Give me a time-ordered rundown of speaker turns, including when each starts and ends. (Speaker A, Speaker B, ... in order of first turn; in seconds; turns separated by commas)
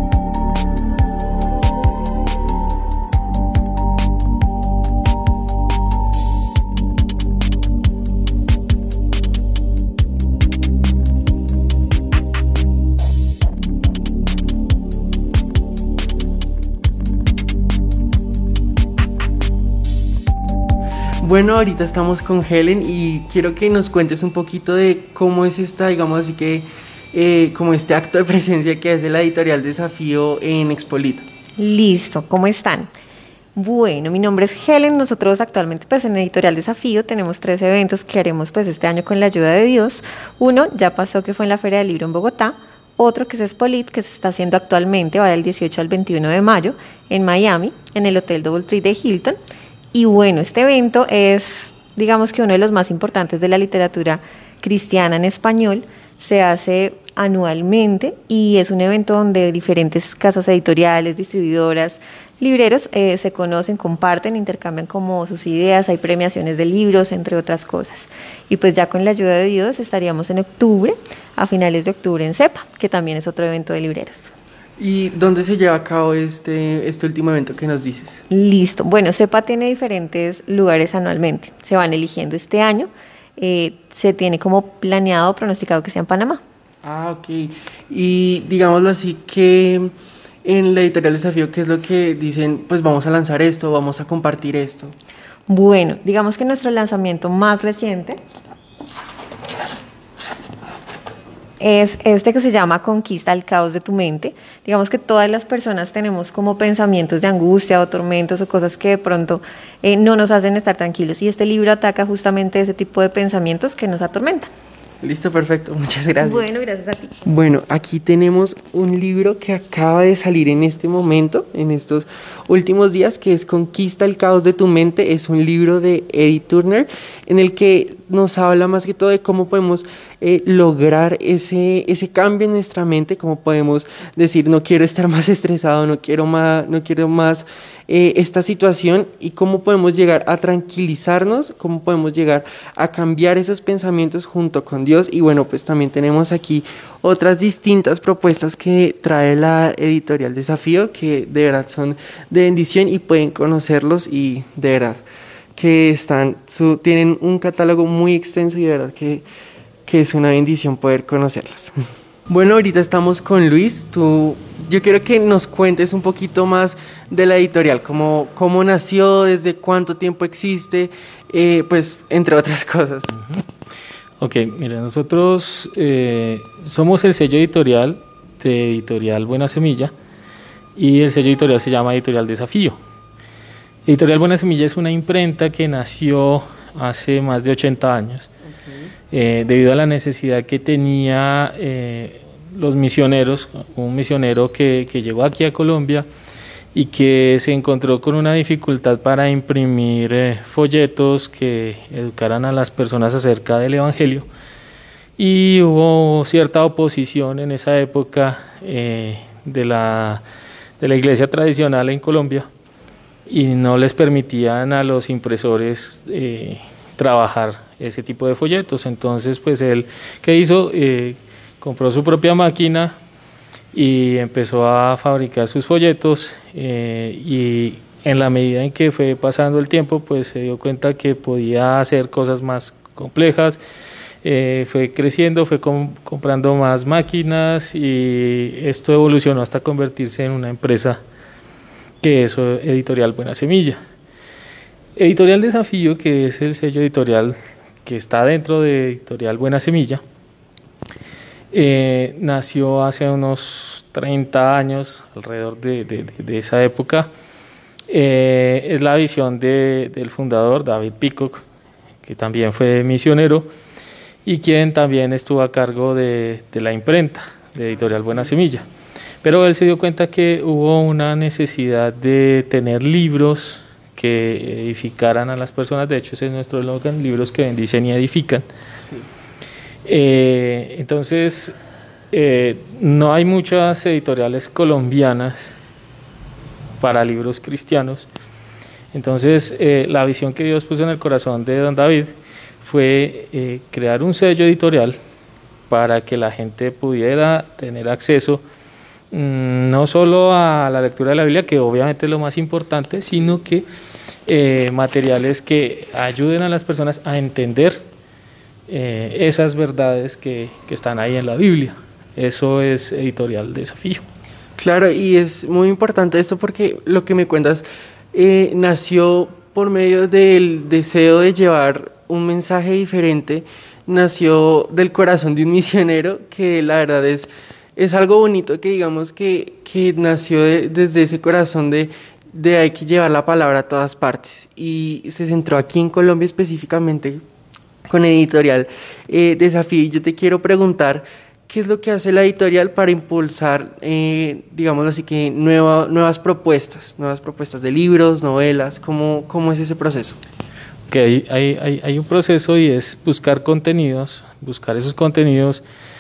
Speaker A: 21.2-31.3, Speaker B: 31.6-32.9, Speaker B: 33.6-49.4, Speaker B: 49.9-74.3, Speaker A: 74.8-78.2, Speaker B: 78.3-86.4, Speaker A: 86.8-89.9, Speaker A: 90.4-95.0, Speaker B: 95.5-98.2, Speaker B: 101.6-114.5, Speaker A: 115.0-116.5, Speaker B: 116.2-117.2, Speaker A: 117.2-155.0, Speaker A: 155.6-159.2, Speaker A: 159.9-161.8, Speaker A: 162.3-173.1, Speaker C: 173.1-173.4, Speaker C: 174.2-179.9, Speaker C: 180.8-182.8, Speaker C: 183.9-188.3, Speaker A: 188.6-188.9, Speaker C: 189.1-196.1, Speaker C: 196.7-204.3, Speaker C: 205.2-210.2, Speaker C: 210.8-212.5, Speaker C: 213.3-223.0, Speaker C: 223.7-233.6, Speaker C: 234.2-241.0, Speaker C: 242.0-243.8, Speaker C: 245.0-250.0, Speaker C: 251.5-257.1, Speaker C: 257.9-261.4, Speaker C: 262.1-263.5, Speaker C: 264.2-268.7, Speaker C: 269.2-278.5, Speaker C: 279.9-281.6, Speaker C: 282.1-285.6, Speaker C: 286.8-288.1, Speaker C: 288.9-292.1, Speaker C: 292.6-295.0, Speaker C: 295.7-298.4, Speaker C: 299.1-303.6, Speaker C: 304.3-307.8, Speaker C: 308.7-314.0, Speaker A: 314.6-337.2, Speaker A: 337.9-350.2, Speaker C: 350.9-355.6